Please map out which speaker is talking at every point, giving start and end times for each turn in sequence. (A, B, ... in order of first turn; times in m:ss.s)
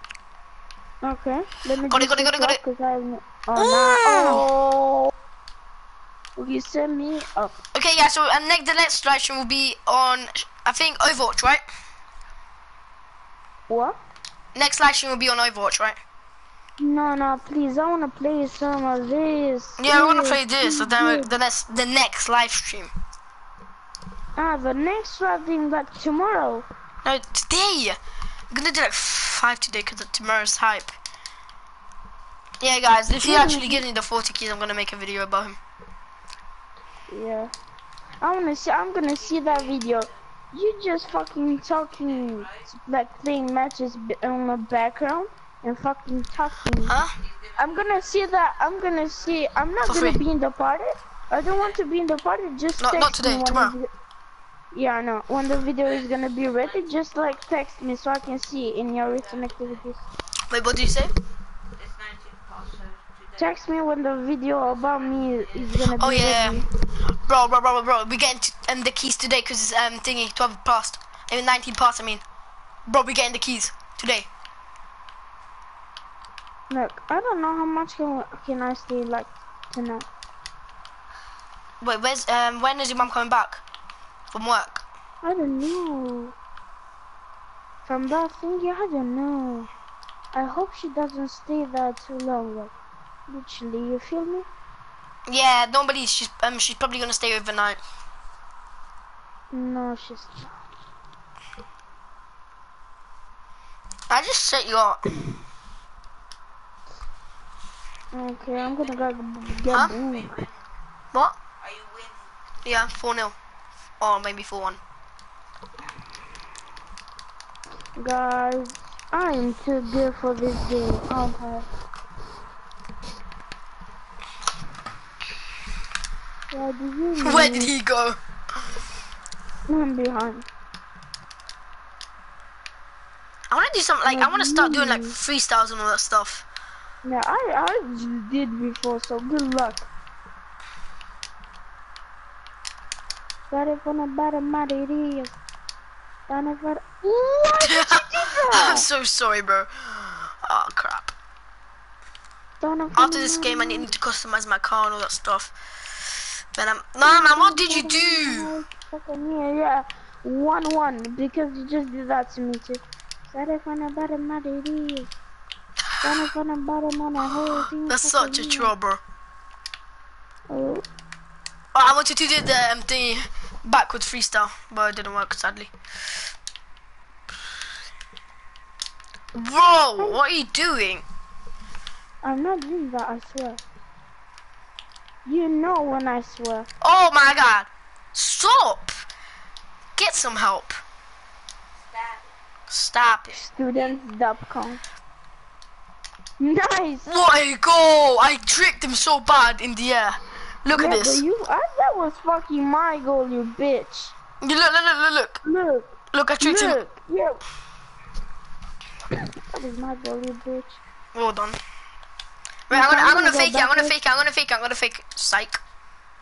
0:01.0-0:05.1 A
0:01.9-0:02.6 B
0:03.6-0:04.4 B
0:06.4-0:07.6 A
0:07.7-0:11.6 B
0:13.7-0:14.0 A
0:14.6-0:16.0 B
0:16.8-0:21.3 A
0:19.8-0:22.9 B
0:24.4-0:26.7 A
0:27.0-0:28.0 B
0:28.5-0:31.0 B
0:32.6-0:35.6 B
0:33.2-0:33.8 A
0:37.1-0:37.5 A
0:38.2-0:47.0 A
0:39.4-0:40.0 C
0:42.2-0:42.6 C
0:46.8-0:47.2 B
0:47.2-0:48.0 C
0:47.6-0:53.9 A
0:49.9-0:50.2 B
0:52.8-0:53.8 B
0:54.7-1:00.0 A
0:59.2-0:59.5 C
1:00.5-1:01.1 B
1:01.8-1:03.5 C
1:03.4-1:06.7 A
1:04.7-1:05.7 C
1:06.0-1:06.6 B
1:07.3-1:12.2 B
1:12.9-1:14.3 B
1:16.7-1:20.1 A
1:21.8-1:23.6 B
1:24.3-1:24.8 B
1:25.2-1:26.4 A
1:27.8-1:29.7 A
1:30.3-1:32.7 A
1:33.3-1:34.5 A
1:35.3-1:37.8 B
1:39.5-1:40.5 A
1:44.1-1:45.0 B
1:48.1-1:50.4 A
1:48.5-1:49.1 C
1:50.0-1:50.7 C
1:51.6-1:52.3 C
1:52.6-1:53.4 B
1:54.0-1:54.8 B
1:58.0-2:01.7 A
2:06.5-2:07.7 A
2:07.2-2:08.2 B
2:09.7-2:10.5 A
2:13.5-2:16.4 B
2:14.1-2:15.2 A
2:17.0-2:19.9 A
2:23.5-2:25.4 A
2:26.3-2:28.9 A
2:27.7-2:31.1 B
2:32.6-2:33.9 A
2:33.0-2:35.5 B
2:36.6-2:38.5 B
2:37.0-2:45.1 A
2:46.0-2:48.7 A
2:47.8-2:49.0 B
2:50.5-2:50.8 A
2:51.7-2:55.7 B
2:59.4-3:01.0 B
3:02.2-3:03.6 A
3:05.3-3:06.7 A
3:06.8-3:09.0 B
3:10.0-3:10.8 B
3:11.9-3:12.3 C
3:12.7-3:13.4 B
3:13.3-3:14.8 A
3:16.4-3:17.1 A
3:17.1-3:21.2 B
3:20.7-3:24.2 A
3:24.4-3:25.4 B
3:25.4-3:27.4 A
3:26.1-3:26.8 B
3:29.5-3:30.8 A
3:31.1-3:31.6 B
3:32.7-3:35.6 B
3:32.7-3:34.0 A